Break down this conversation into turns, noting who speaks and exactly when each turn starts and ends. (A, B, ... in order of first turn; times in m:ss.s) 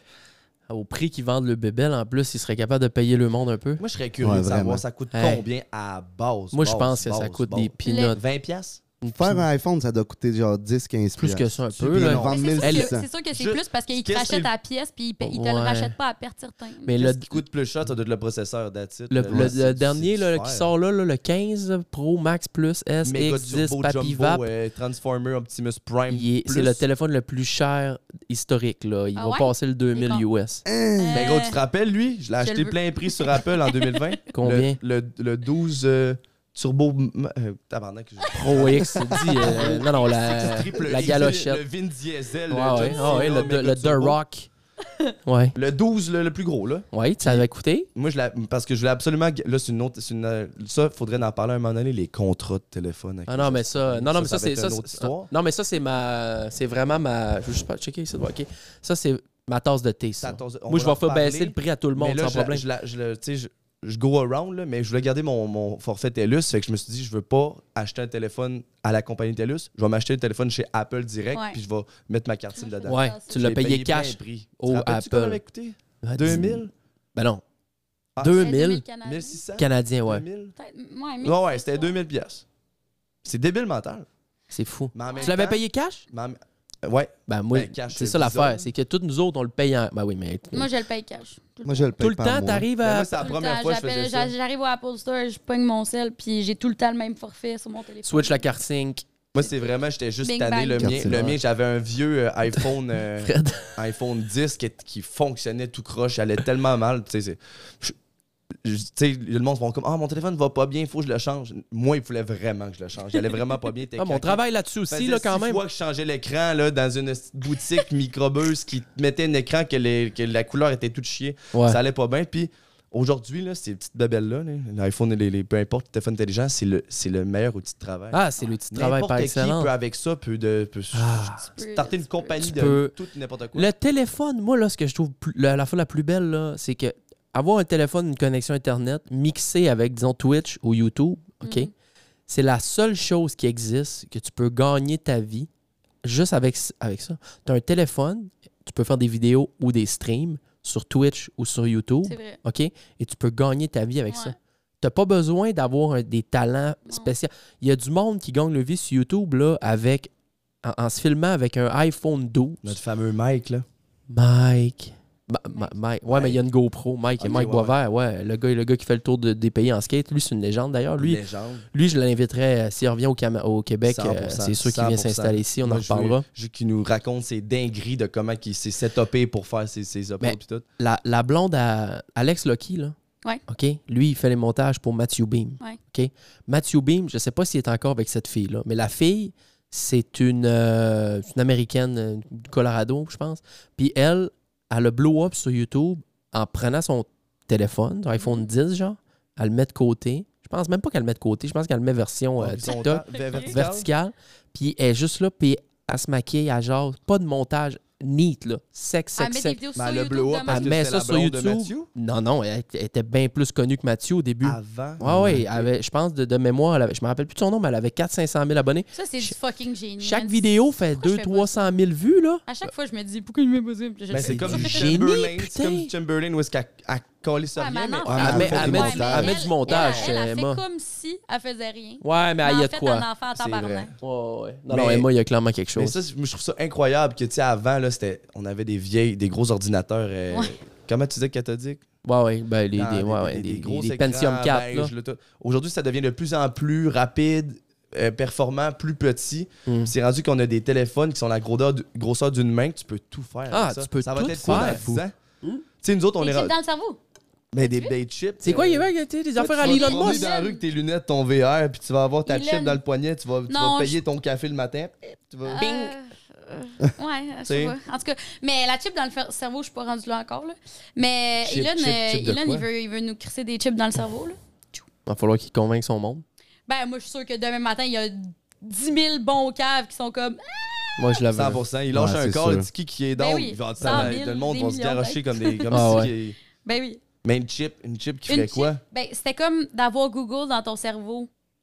0:00.7-0:03.8 A
0:03.8-0:08.8 B
0:04.2-0:04.8 C
0:05.1-0:05.4 A
0:06.5-0:08.2 A
0:07.8-0:08.2 D
0:09.0-0:09.4 A
0:09.1-0:13.1 C
0:11.2-0:12.9 A
0:11.9-0:12.7 B
0:12.3-0:16.9 D
0:13.3-0:14.5 B
0:15.2-0:15.9 A
0:16.8-0:17.4 A
0:17.0-0:20.7 B
0:19.1-0:24.5 A
0:19.2-0:19.5 C
0:23.0-0:26.8 B
0:26.1-0:30.6 A
0:29.2-0:30.2 D
0:30.6-0:31.4 C
0:31.0-0:31.6 D
0:31.1-0:44.2 B
0:32.4-0:34.1 D
0:34.3-0:34.8 A
0:38.3-0:41.6 A
0:42.5-0:44.5 A
0:45.2-0:45.5 A
0:45.5-0:55.3 B
0:46.9-0:47.9 A
0:53.3-1:02.6 A
1:00.2-1:16.7 B
1:11.3-1:11.6 D
1:12.5-1:13.3 D
1:12.8-1:15.4 A
1:16.0-1:17.4 A
1:18.2-1:20.5 B
1:18.2-1:18.8 A
1:18.4-1:19.4 D
1:19.6-1:20.2 A
1:20.6-1:21.9 D
1:21.2-1:22.4 B
1:23.2-1:24.0 B
1:24.5-1:26.0 A
1:24.9-1:28.7 B
1:25.1-1:25.4 D
1:27.3-1:30.7 A
1:30.5-1:31.9 D
1:31.6-1:32.7 C
1:32.0-1:33.2 A
1:32.8-1:34.3 B
1:33.2-1:38.4 D
1:38.0-1:39.0 A
1:39.3-1:48.0 B
1:40.2-1:41.0 D
1:40.8-1:41.4 C
1:43.2-1:43.7 A
1:48.6-2:13.7 B
1:54.0-1:55.6 A
2:01.5-2:01.8 A
2:08.1-2:09.7 A
2:10.9-2:11.5 A
2:11.6-2:12.5 D
2:12.4-2:12.9 A
2:13.5-2:21.7 A
2:21.4-2:21.7 D
2:22.3-2:25.5 A
2:26.0-2:40.1 A
2:32.0-2:32.4 D
2:34.1-2:34.3 D
2:40.6-2:42.8 A
2:42.6-2:43.6 B
2:44.1-2:51.2 A
2:46.1-2:46.4 B
2:47.2-2:47.7 B
2:51.0-2:51.6 B
2:51.7-2:56.2 A
2:53.8-3:00.6 B
3:00.2-3:02.9 A
3:03.5-3:29.6 A
3:18.2-3:18.4 D
3:22.4-3:23.9 B
3:22.7-3:23.5 D
3:29.2-3:30.7 D
3:29.8-3:31.9 B
3:30.5-3:39.3 A
3:34.4-3:35.7 B
3:35.0-3:35.4 C
3:38.9-3:41.8 D
3:40.0-3:42.4 A
3:42.4-3:45.0 D
3:44.1-3:50.1 B
3:44.2-3:45.9 A
3:47.6-3:53.9 D
3:48.0-3:49.4 C
3:48.2-3:50.6 A
3:52.0-3:53.0 A
3:53.4-3:53.9 B
3:54.0-3:56.0 A
3:54.7-3:55.1 B
3:55.8-4:01.8 B
4:02.0-4:04.9 A
4:02.8-4:15.1 B
4:09.7-4:09.9 A
4:13.5-4:14.9 A
4:14.4-4:15.0 C
4:15.8-4:16.5 B
4:16.2-4:17.0 D
4:17.5-4:25.9 B
4:17.6-4:17.9 D
4:18.4-4:20.3 A
4:19.6-4:20.6 D
4:22.2-4:22.8 D
4:23.5-4:24.0 D
4:25.4-4:34.8 D
4:25.6-4:25.9 A
4:27.4-4:27.7 B
4:31.4-4:32.6 B
4:35.0-4:36.2 A
4:36.7-4:41.2 D
4:41.0-4:41.6 A
4:41.3-4:46.4 B
4:41.9-4:42.7 C
4:43.2-4:46.1 D
4:43.8-4:44.1 A
4:45.7-4:46.1 A
4:46.6-4:47.0 D
4:47.2-4:48.8 B
4:48.3-4:51.3 D